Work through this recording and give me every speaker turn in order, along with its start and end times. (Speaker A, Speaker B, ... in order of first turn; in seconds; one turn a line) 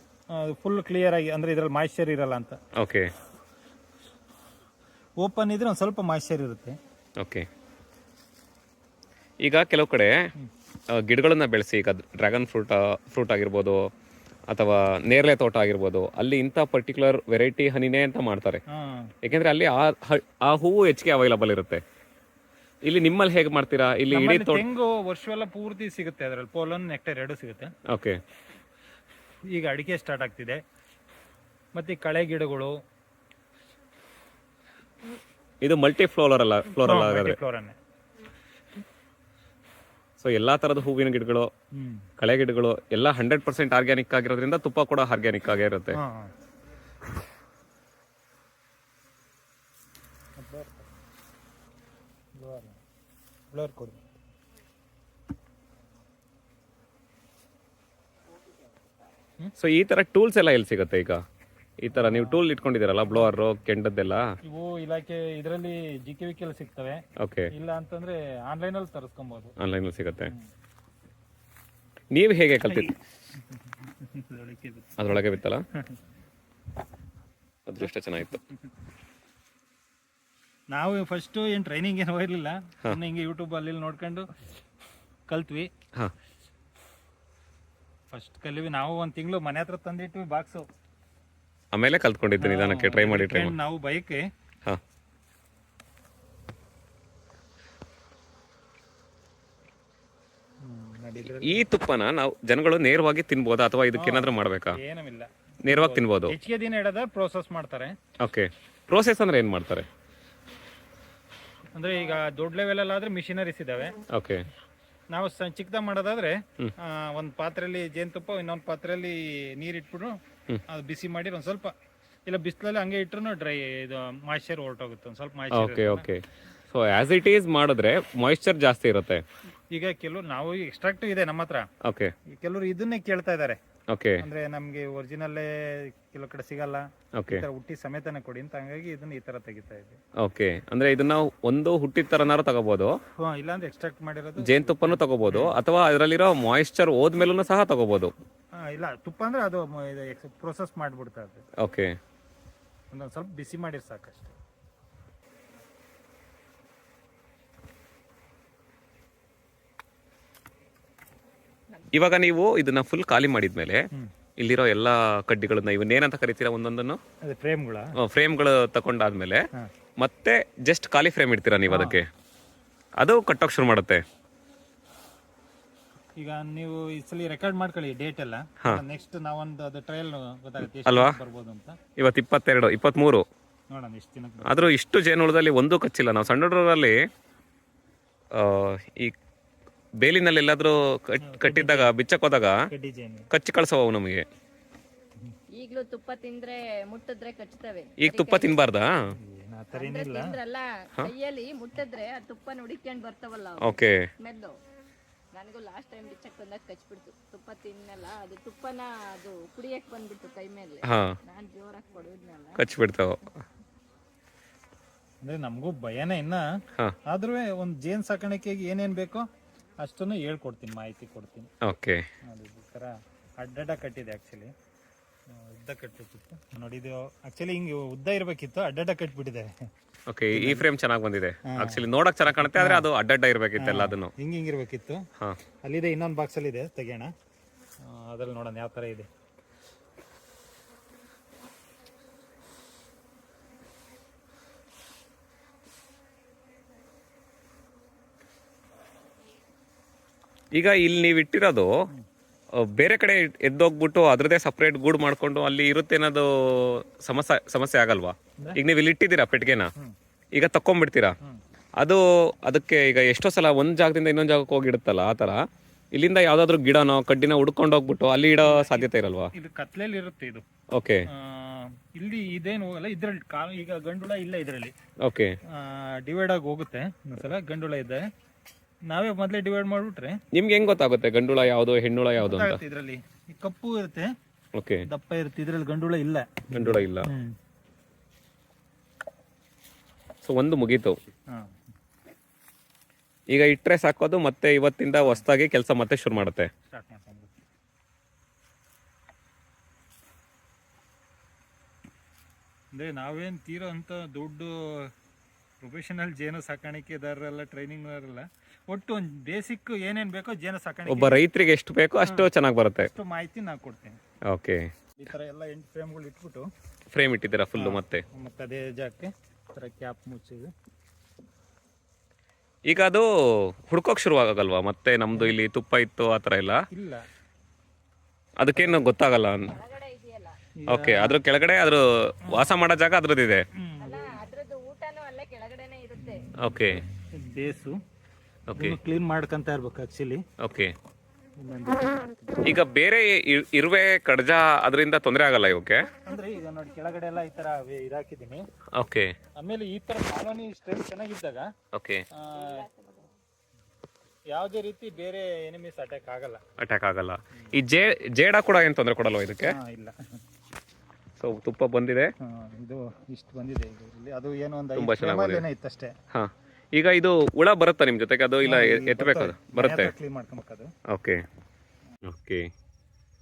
Speaker A: 0.3-2.6
Speaker B: 2.8-3.1
Speaker A: 5.2-6.8
Speaker B: 7.2-7.5
Speaker B: 9.4-10.2
Speaker B: 10.9-13.9
Speaker B: 14.5-18.6
Speaker A: 18.7-19.1
Speaker B: 19.2-21.8
Speaker B: 22.9-24.6
Speaker A: 24.1-27.7
Speaker B: 27.9-28.2
Speaker A: 29.5-30.6
Speaker A: 31.7-32.8
Speaker B: 35.6-37.4
Speaker A: 36.8-37.8
Speaker B: 40.2-41.5
Speaker A: 41.8-42.0
Speaker B: 42.2-46.0
Speaker A: 45.9-46.3
Speaker A: 50.4-50.9
Speaker A: 52.4-52.8
Speaker A: 53.5-54.1
Speaker B: 59.6-61.2
Speaker B: 61.8-64.2
Speaker A: 61.9-62.4
Speaker A: 63.1-63.4
Speaker A: 64.4-69.5
Speaker B: 67.2-67.5
Speaker B: 69.6-70.3
Speaker B: 72.1-72.9
Speaker A: 72.6-73.0
Speaker A: 73.8-75.9
Speaker B: 75.0-75.6
Speaker B: 77.7-78.4
Speaker A: 80.7-84.2
Speaker A: 85.3-85.7
Speaker A: 88.1-90.6
Speaker B: 91.7-93.5
Speaker A: 92.4-94.2
Speaker A: 100.6-101.6
Speaker B: 101.2-104.8
Speaker A: 103.9-108.0
Speaker B: 105.6-106.3
Speaker B: 108.2-109.9
Speaker A: 111.8-114.0
Speaker B: 114.1-114.5
Speaker A: 115.1-121.7
Speaker A: 122.2-126.1
Speaker B: 125.5-129.2
Speaker A: 129.7-131.7
Speaker B: 131.8-132.1
Speaker A: 132.3-133.6
Speaker B: 133.9-134.2
Speaker A: 134.2-140.0
Speaker B: 137.2-137.4
Speaker B: 140.2-142.9
Speaker A: 143.2-145.5
Speaker B: 144.4-148.1
Speaker A: 148.6-151.4
Speaker B: 151.6-152.0
Speaker A: 152.9-154.3
Speaker B: 161.9-163.9
Speaker B: 164.4-167.0
Speaker A: 167.2-167.9
Speaker B: 168.0-169.4
Speaker B: 170.0-172.1
Speaker A: 171.7-172.0
Speaker B: 173.0-174.0
Speaker A: 176.2-181.8
Speaker B: 180.8-181.2
Speaker B: 182.0-183.2
Speaker A: 183.7-184.7
Speaker B: 184.4-186.9
Speaker B: 188.3-189.1
Speaker B: 190.0-192.6
Speaker A: 191.2-191.9
Speaker A: 192.7-193.3
Speaker B: 193.3-194.2
Speaker C: 195.5-198.6
Speaker B: 198.0-199.1
Speaker A: 199.2-200.4
Speaker C: 199.7-204.6
Speaker B: 203.6-204.0
Speaker C: 205.3-212.7
Speaker B: 210.8-211.2
Speaker B: 212.6-213.2
Speaker A: 215.2-216.4
Speaker A: 217.1-219.2
Speaker A: 219.8-221.5
Speaker B: 221.6-222.0
Speaker A: 222.3-224.5
Speaker A: 225.3-229.5
Speaker B: 230.1-234.1
Speaker A: 230.3-230.7
Speaker A: 231.5-232.9
Speaker A: 233.6-235.0
Speaker A: 235.6-237.1
Speaker A: 237.8-239.1
Speaker B: 250.5-251.7
Speaker B: 252.6-259.7
Speaker B: 260.4-261.1
Speaker B: 261.8-265.4
Speaker B: 265.9-269.3
Speaker A: 268.4-270.4
Speaker B: 270.7-271.1
Speaker A: 271.1-274.8
Speaker B: 275.0-275.4
Speaker A: 275.5-278.0
Speaker A: 278.9-280.2
Speaker B: 280.3-282.6
Speaker A: 282.2-284.1
Speaker B: 284.5-284.9
Speaker A: 284.9-287.3
Speaker B: 286.5-287.1
Speaker B: 290.2-291.0
Speaker B: 293.3-296.5
Speaker A: 295.0-295.2
Speaker A: 296.7-297.4
Speaker A: 302.8-304.9
Speaker A: 305.6-311.2
Speaker B: 310.9-312.9
Speaker A: 312.0-312.3
Speaker A: 312.9-314.0
Speaker B: 314.3-314.7
Speaker A: 315.0-316.5
Speaker B: 316.9-318.0
Speaker A: 317.6-320.5
Speaker B: 322.7-326.6
Speaker A: 326.7-327.0
Speaker B: 328.4-329.5
Speaker A: 328.6-328.9
Speaker C: 329.5-330.4
Speaker A: 330.6-331.2
Speaker B: 330.7-333.5
Speaker A: 332.2-332.5
Speaker A: 333.6-334.2
Speaker C: 333.8-336.3
Speaker A: 336.1-336.6
Speaker B: 336.4-336.8
Speaker A: 337.1-337.8
Speaker B: 338.5-338.8
Speaker A: 338.6-340.2
Speaker B: 340.4-340.7
Speaker A: 341.4-342.5
Speaker B: 342.4-345.8
Speaker A: 346.1-348.4
Speaker B: 348.8-349.1
Speaker A: 349.4-351.5
Speaker B: 351.7-352.0
Speaker A: 352.1-352.6
Speaker C: 352.3-353.1
Speaker A: 354.3-356.4
Speaker B: 356.6-359.6
Speaker A: 359.4-360.0
Speaker B: 361.2-362.1
Speaker A: 362.2-365.9
Speaker B: 364.8-365.4
Speaker B: 366.1-369.9
Speaker A: 368.4-370.7
Speaker B: 370.9-371.2
Speaker B: 372.1-372.5